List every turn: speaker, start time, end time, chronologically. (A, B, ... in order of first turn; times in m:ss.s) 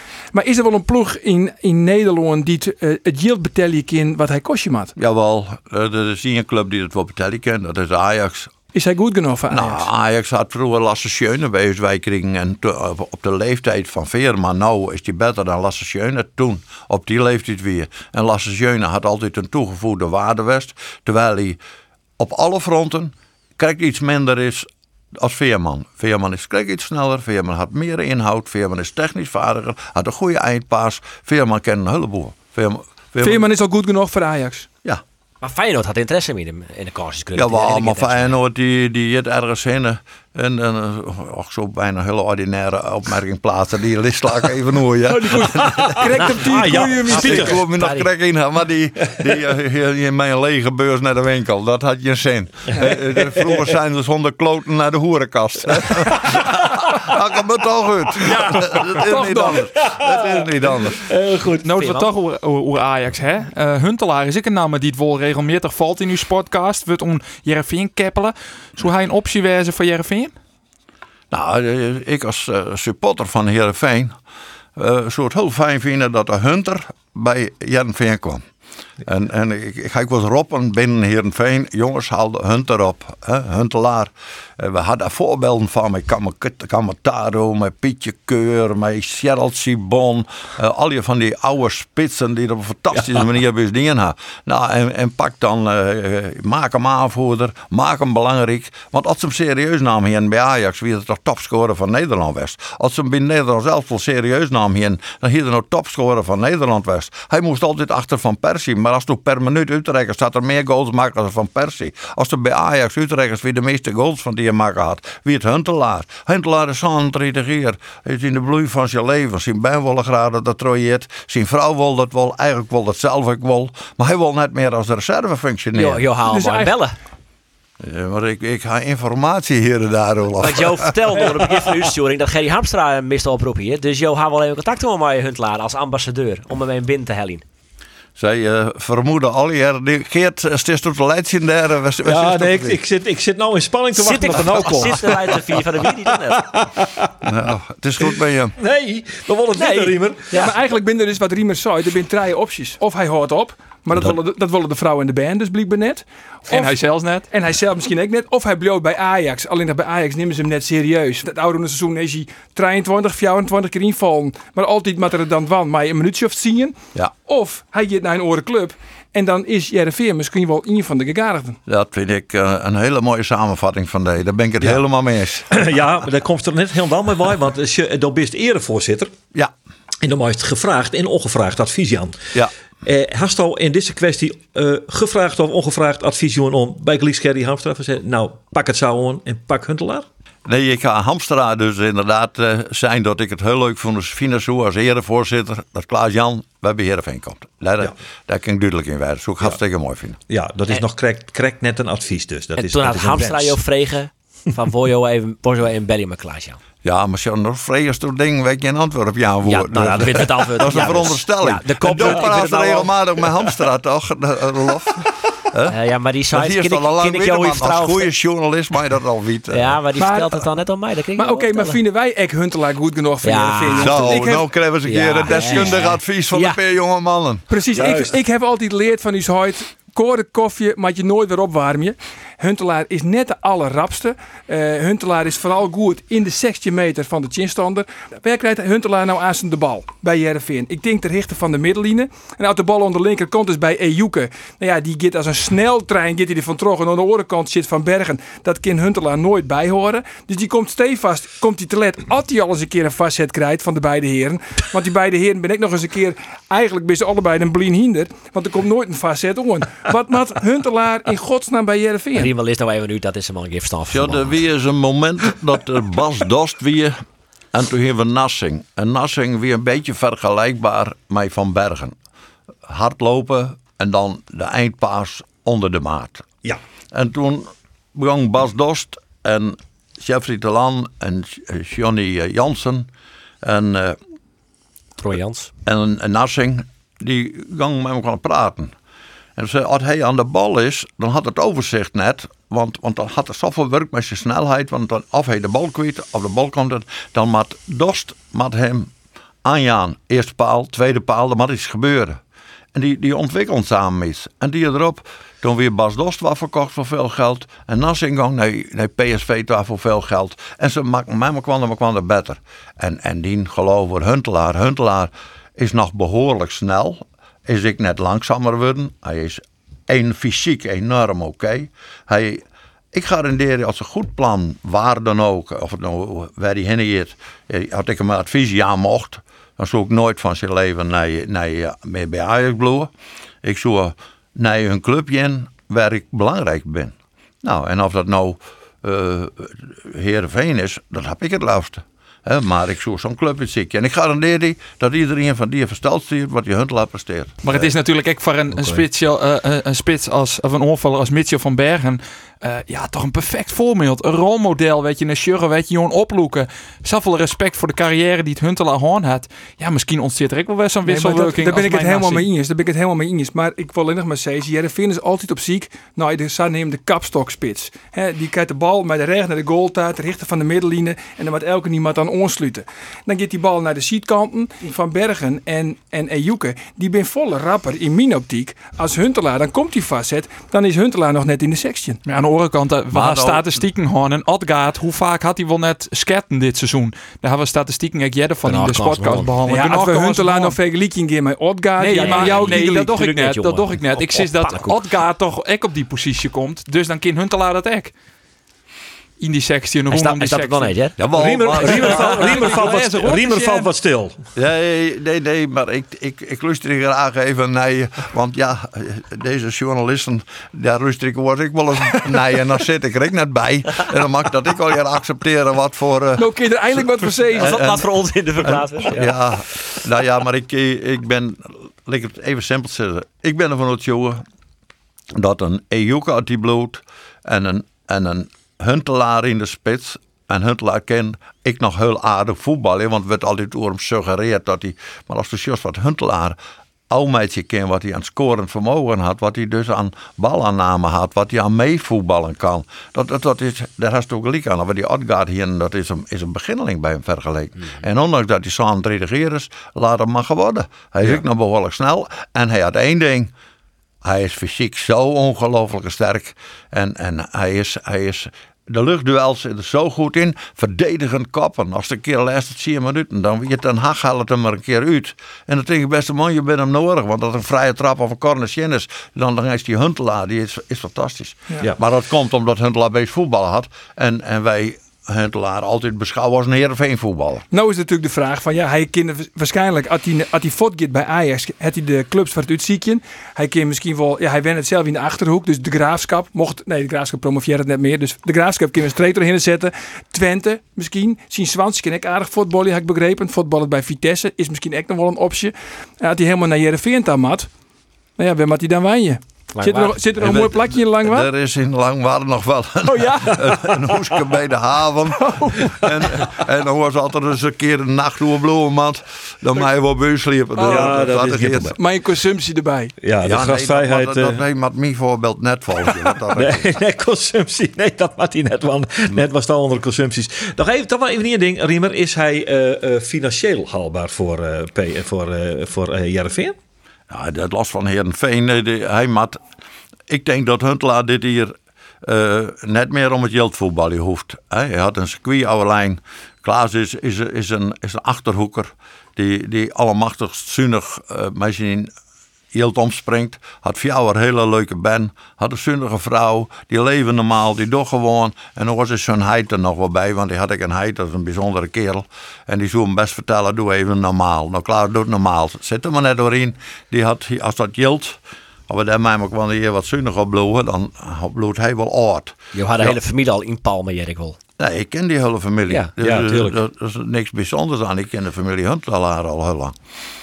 0:00.3-0:04.9 A
0:05.0-0:08.5 B
0:08.7-0:09.9 A
0:09.5-0:21.6 B
0:22.2-0:33.5 B
0:33.2-0:34.7 A
0:35.4-0:38.3 C
0:37.3-0:46.3 B
0:45.1-0:47.6 A
0:45.6-0:47.6 D
0:47.1-1:01.0 B
0:47.1-0:48.1 C
0:52.8-0:53.6 D
0:55.7-0:56.6 D
0:58.4-0:59.7 A
0:58.6-1:01.7 D
1:01.6-1:10.3 E
1:01.8-1:02.1 C
1:11.3-1:14.1 B
1:14.8-1:18.4 B
1:19.0-2:06.1 B
2:05.7-2:07.0 C
2:06.3-2:06.7 A
2:07.8-2:11.4 B
2:10.4-2:17.4 C
2:18.2-2:22.8 B
2:22.0-2:27.2 D
2:23.9-2:26.4 C
2:27.2-2:28.6 B
2:28.6-2:30.5 D
2:29.5-2:30.6 C
2:30.3-2:36.7 A
2:36.5-2:37.3 E
2:37.3-2:51.6 A
2:51.7-2:55.5 B
2:55.5-2:59.1 D
3:00.0-3:02.2 D
3:02.8-3:10.0 D
3:10.4-3:20.2 B
3:20.3-3:23.6 D
3:22.6-3:26.6 C
3:26.8-3:35.8 B
3:29.4-3:33.7 C
3:35.6-3:38.1 C
3:36.3-3:39.8 B
3:39.5-3:41.8 C
3:40.0-3:40.4 A
3:41.1-3:44.5 A
3:43.2-3:44.2 C
3:43.8-3:47.6 B
3:44.8-3:46.6 C
3:47.5-4:22.3 A
3:47.7-3:48.2 D
4:22.1-4:24.3 C
4:23.9-4:27.0 B
4:27.5-4:32.0 B
4:32.6-4:36.2 B
4:36.9-4:42.9 B
4:43.4-4:44.0 B
4:45.0-4:45.5 C
4:45.6-4:48.7 B
4:49.4-4:58.9 B
4:59.4-5:02.2 B
5:02.7-5:32.9 B
5:33.4-5:47.6 B
5:47.4-6:02.3 E
5:48.5-5:48.8 D
6:00.8-6:22.0 A
6:22.0-6:30.6 E
6:22.9-6:23.4 B
6:28.4-6:29.3 C
6:29.5-6:33.1 A
6:31.8-6:37.9 E
6:31.9-6:34.8 C
6:39.2-6:40.8 E
6:39.9-6:41.0 C
6:41.0-6:42.5 B
6:41.1-6:44.2 D
6:41.6-6:43.7 E
6:44.4-6:57.8 B
6:56.2-6:57.6 A
6:57.3-6:59.2 C
6:58.9-7:04.2 B
7:05.1-7:16.4 B
7:16.9-7:33.3 B
7:34.0-7:57.4 B
7:57.5-8:17.5 A
8:18.2-8:21.3 A
8:19.5-8:20.2 C
8:20.2-8:31.8 B
8:22.8-8:23.8 A
8:25.2-8:25.8 A
8:30.6-8:31.8 D
8:30.6-8:30.9 A
8:31.8-8:32.9 A
8:33.0-8:34.4 D
8:33.2-8:36.6 B
8:36.3-8:46.6 D
8:47.1-8:49.4 B
8:50.1-9:01.9 B
9:02.5-9:23.0 B
9:22.5-9:24.4 C
9:24.6-9:29.7 B
9:26.0-9:26.6 D